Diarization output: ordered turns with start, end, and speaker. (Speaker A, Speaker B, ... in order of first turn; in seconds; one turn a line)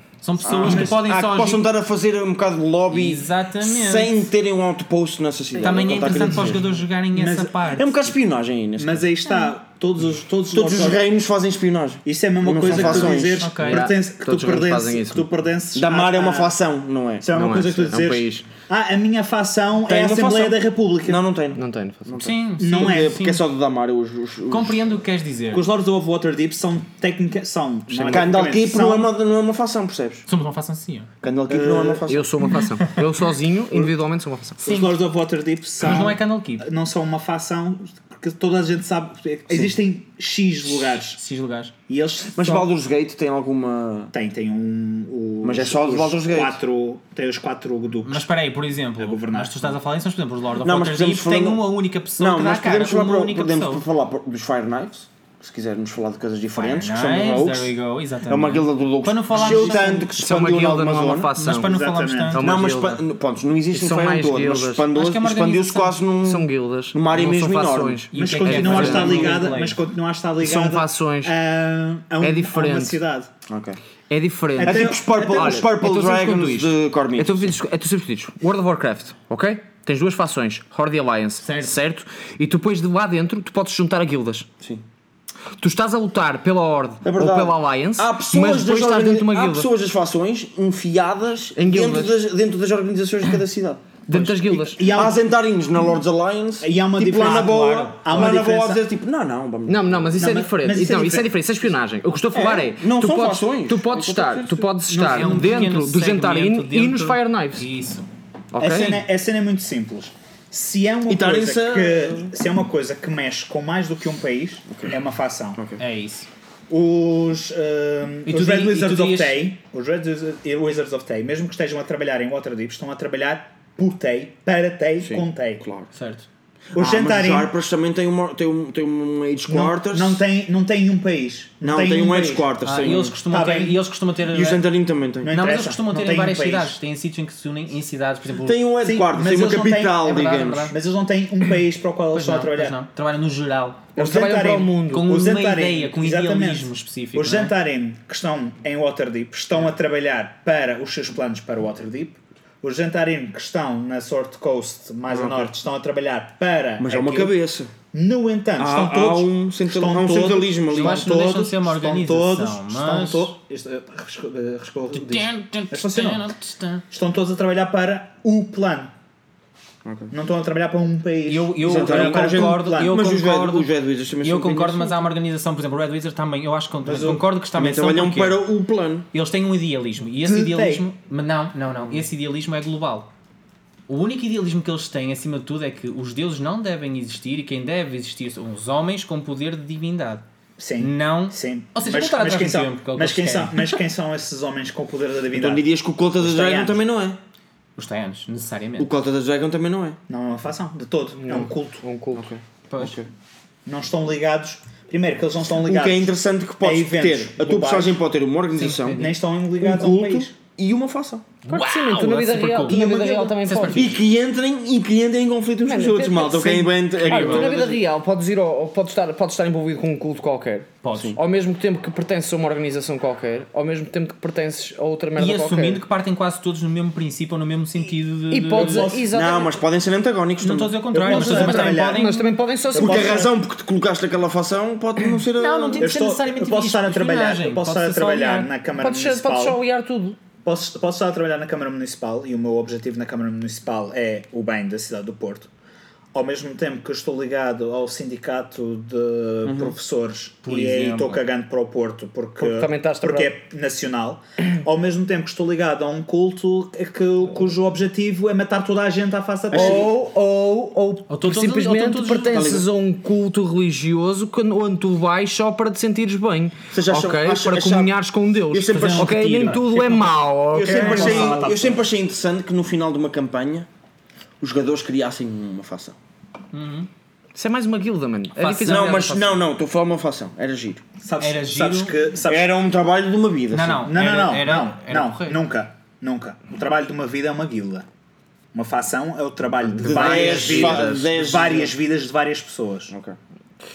Speaker A: 0.2-1.7
Speaker B: 0.4-6.7
Speaker C: 0.6-1.0
Speaker A: 2.9-4.2
Speaker A: 5.6-8.0
Speaker C: 7.1-7.6
Speaker B: 7.8-9.1
Speaker C: 8.8-11.0
Speaker B: 10.5-13.6
Speaker C: 12.1-16.6
Speaker A: 12.7-13.9
Speaker D: 13.6-15.3
Speaker B: 15.8-17.3
Speaker C: 17.2-21.2
Speaker D: 17.3-18.5
Speaker B: 19.9-24.8
Speaker D: 21.6-22.2
Speaker A: 22.2-23.4
Speaker C: 22.6-23.2
Speaker A: 24.5-25.7
Speaker C: 25.5-29.1
Speaker D: 27.9-28.3
Speaker B: 28.0-30.2
Speaker A: 30.3-31.1
Speaker B: 31.2-32.3
Speaker C: 31.5-32.1
Speaker D: 32.1-34.6
Speaker C: 34.6-41.2
Speaker A: 34.6-35.0
Speaker A: 35.8-36.7
Speaker A: 40.7-41.7
Speaker C: 41.9-42.7
Speaker B: 42.2-44.1
Speaker C: 44.1-48.3
Speaker B: 45.4-46.6
Speaker A: 48.0-53.8
Speaker C: 49.0-49.8
Speaker B: 50.6-57.7
Speaker A: 56.6-60.1
Speaker B: 58.3-61.3
Speaker D: 60.0-61.7
Speaker A: 61.4-62.5
Speaker C: 61.5-62.4
Speaker D: 62.3-63.0
Speaker B: 62.4-69.4
Speaker D: 63.7-64.8
Speaker A: 64.9-66.0
Speaker D: 66.2-69.3
Speaker A: 68.1-69.8
Speaker C: 68.2-73.3
Speaker D: 70.4-71.3
Speaker D: 72.2-73.0
Speaker B: 73.5-73.8
Speaker D: 74.1-84.5
Speaker C: 74.6-75.7
Speaker B: 74.6-77.5
Speaker A: 81.4-81.7
Speaker D: 85.6-89.7
Speaker B: 87.0-100.2
Speaker D: 91.6-92.2
Speaker D: 94.1-95.1
Speaker C: 94.5-95.2
Speaker C: 96.6-98.8
Speaker D: 99.7-107.7
Speaker C: 100.2-101.3
Speaker B: 102.3-104.8
Speaker A: 104.9-108.1
Speaker C: 104.9-105.5
Speaker D: 108.5-109.0
Speaker C: 108.6-115.6
Speaker B: 111.1-112.3
Speaker B: 115.6-115.8
Speaker A: 115.8-116.3
Speaker C: 116.7-125.6
Speaker A: 118.3-119.5
Speaker B: 125.0-125.9
Speaker A: 125.9-126.3
Speaker C: 126.8-127.5
Speaker B: 126.8-130.2
Speaker C: 129.5-132.5
Speaker B: 131.6-133.2
Speaker A: 132.6-134.6
Speaker C: 133.3-133.8
Speaker B: 134.3-135.4
Speaker C: 135.2-136.7
Speaker A: 135.3-138.7
Speaker B: 138.4-140.7
Speaker C: 138.8-140.1
Speaker A: 140.0-140.8
Speaker C: 140.7-142.8
Speaker A: 142.1-143.9
Speaker D: 144.0-145.1
Speaker C: 144.0-157.3
Speaker A: 144.9-147.5
Speaker B: 155.1-155.5
Speaker B: 156.8-157.7
Speaker C: 157.9-166.3
Speaker B: 158.6-161.2
Speaker A: 160.7-163.3
Speaker A: 164.9-166.8
Speaker C: 166.9-168.9
Speaker B: 169.8-170.1
Speaker C: 170.1-172.9
Speaker A: 171.2-173.7
Speaker B: 171.6-175.0
Speaker A: 174.2-178.4
Speaker C: 176.8-177.2
Speaker B: 177.6-179.1
Speaker A: 179.1-183.1
Speaker C: 180.2-180.9
Speaker A: 183.9-190.2
Speaker C: 190.6-195.7
Speaker A: 190.8-193.8
Speaker B: 195.3-197.2
Speaker C: 196.2-196.8
Speaker A: 197.8-198.9
Speaker B: 198.8-200.0
Speaker C: 200.1-201.8
Speaker D: 201.2-202.3
Speaker B: 202.2-203.1
Speaker A: 202.7-203.0
Speaker C: 203.7-208.0
Speaker B: 205.6-211.2
Speaker A: 208.6-209.2
Speaker C: 209.0-210.3
Speaker A: 211.5-212.8
Speaker D: 211.5-213.9
Speaker C: 212.7-213.5
Speaker A: 213.4-214.0
Speaker B: 213.7-217.8
Speaker D: 215.7-225.8
Speaker A: 217.0-217.6
Speaker A: 220.8-221.2
Speaker B: 220.9-221.2
Speaker A: 225.2-228.9
Speaker D: 228.3-229.6
Speaker C: 228.5-229.1
Speaker B: 229.1-230.8
Speaker A: 230.4-232.4
Speaker C: 230.9-232.1
Speaker D: 231.1-233.3
Speaker C: 232.7-233.3
Speaker B: 232.8-235.9
Speaker A: 235.0-238.5
Speaker C: 235.8-239.6
Speaker D: 238.8-240.2
Speaker C: 240.4-245.5
Speaker C: 246.1-259.9
Speaker B: 249.4-249.8
Speaker A: 250.4-251.2
Speaker D: 252.4-253.3
Speaker B: 259.5-259.9
Speaker D: 259.5-271.5
Speaker A: 261.1-262.6
Speaker B: 262.3-262.7
Speaker B: 266.7-268.0
Speaker B: 268.5-269.7
Speaker A: 268.7-270.1
Speaker C: 268.8-269.1
Speaker B: 270.5-273.7
Speaker C: 270.6-271.8
Speaker B: 274.4-276.0
Speaker A: 276.5-276.9
Speaker D: 277.4-279.4
Speaker A: 278.4-279.1
Speaker B: 278.6-280.8
Speaker C: 281.0-282.6
Speaker A: 281.2-282.0
Speaker B: 282.2-283.9
Speaker A: 283.5-285.4
Speaker C: 283.9-287.9
Speaker C: 288.5-292.9
Speaker D: 289.7-291.1
Speaker B: 289.8-291.8
Speaker B: 292.9-293.2